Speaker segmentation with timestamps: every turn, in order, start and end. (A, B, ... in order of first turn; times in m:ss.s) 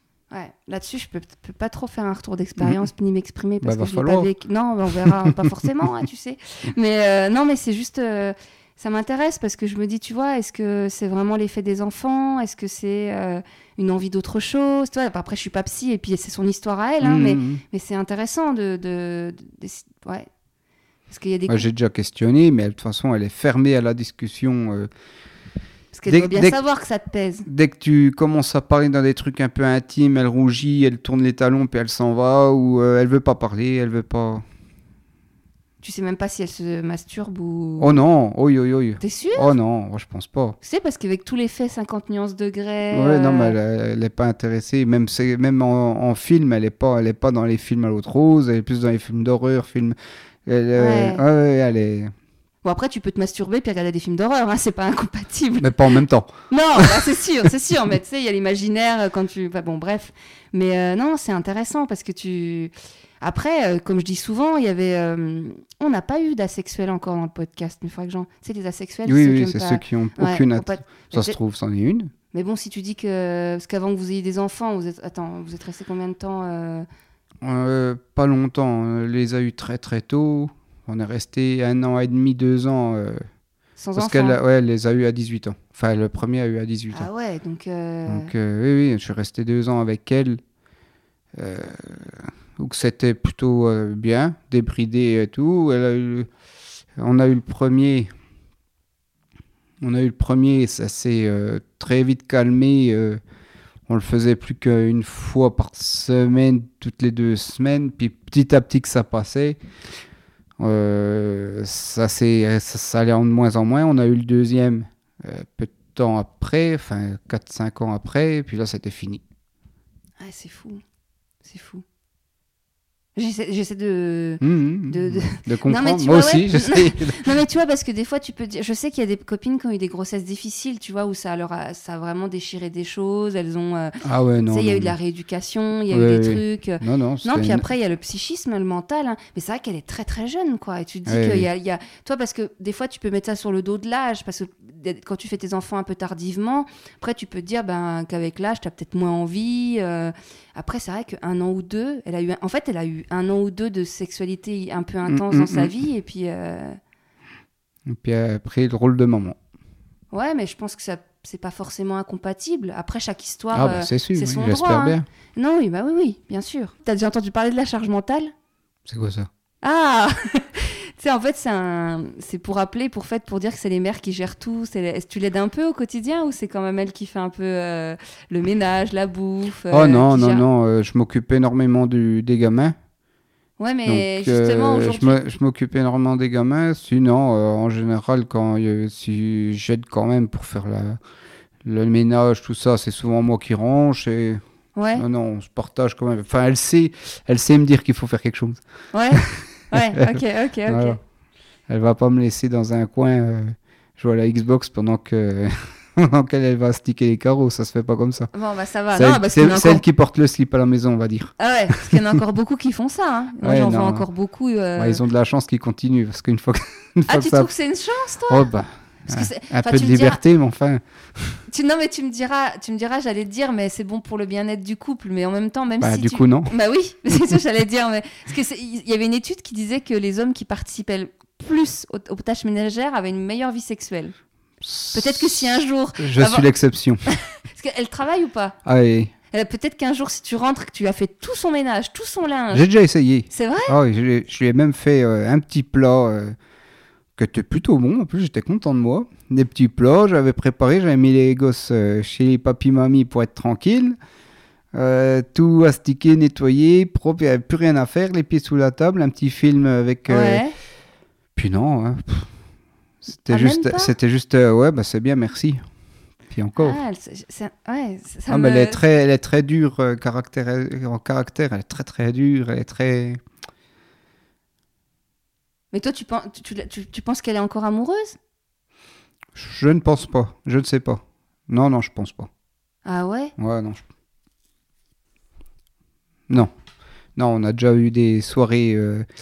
0:00.3-0:20.3 A
0:02.6-0:02.8 B
0:03.6-0:04.3 B
0:05.0-0:05.7 B
0:17.0-0:17.6 B
0:21.1-0:21.6 A
0:21.5-0:24.9 B
0:25.9-0:27.5 A
0:26.1-0:26.6 B
0:27.4-0:34.4 B
0:35.8-0:38.0 A
0:37.8-0:40.6 B
0:39.0-0:39.5 A
0:40.6-0:43.6 A
0:42.9-0:52.1 B
0:50.8-0:51.2 A
0:52.6-0:55.9 A
0:55.6-0:57.5 B
0:56.5-1:11.4 A
1:09.0-1:12.1 B
1:12.3-1:16.9 A
1:17.4-1:23.2 B
1:23.8-1:24.4 A
1:24.0-1:27.1 B
1:26.9-1:28.3 A
1:28.1-1:30.4 B
1:31.4-1:36.3 B
1:37.0-1:38.1 B
1:39.8-1:43.2 B
1:43.9-1:49.6 B
1:50.6-1:59.2 B
2:00.2-2:00.8 A
2:01.4-2:01.8 A
2:03.2-2:14.0 A
2:04.4-2:07.3 B
2:14.0-2:14.9 B
2:14.5-2:36.8 A
2:15.9-2:17.6 B
2:21.0-2:21.5 B
2:35.0-2:35.7 B
2:37.9-2:39.4 B
2:40.1-2:48.3 A
2:43.5-2:45.0 B
2:48.9-2:49.3 B
2:49.6-3:00.4 A
2:59.7-3:02.7 B
3:03.6-3:05.2 A
3:03.8-3:11.0 B
3:11.6-3:14.4 B
3:14.8-3:15.0 A
3:14.9-3:18.6 B
3:18.9-3:21.0 A
3:19.1-3:21.0 B
3:21.7-3:28.3 B
3:28.3-3:29.8 A
3:28.9-3:32.1 B
3:31.4-3:35.0 A
3:33.4-3:34.0 B
3:34.8-3:37.5 B
3:37.1-3:38.5 A
3:38.3-3:41.4 B
3:39.1-3:40.2 A
3:41.5-3:54.1 A
3:45.8-3:46.5 B
3:54.6-3:57.0 B
3:54.9-3:56.5 A
3:57.1-3:58.6 A
3:58.6-3:59.1 B
3:59.3-4:02.6 A
4:02.5-4:06.3 B
4:03.3-4:03.8 A
4:07.2-4:14.0 B
4:14.7-4:20.4 B
4:20.1-4:20.5 A
4:21.4-4:22.3 B
4:23.0-4:25.6 B
4:23.3-4:23.9 A
4:26.3-4:26.8 B
4:26.6-4:28.8 A
4:28.3-4:33.2 B
4:35.7-4:38.2 A
4:39.3-4:42.3 B
4:42.8-4:43.3 A
4:43.4-4:43.8 B
4:47.2-4:49.0 B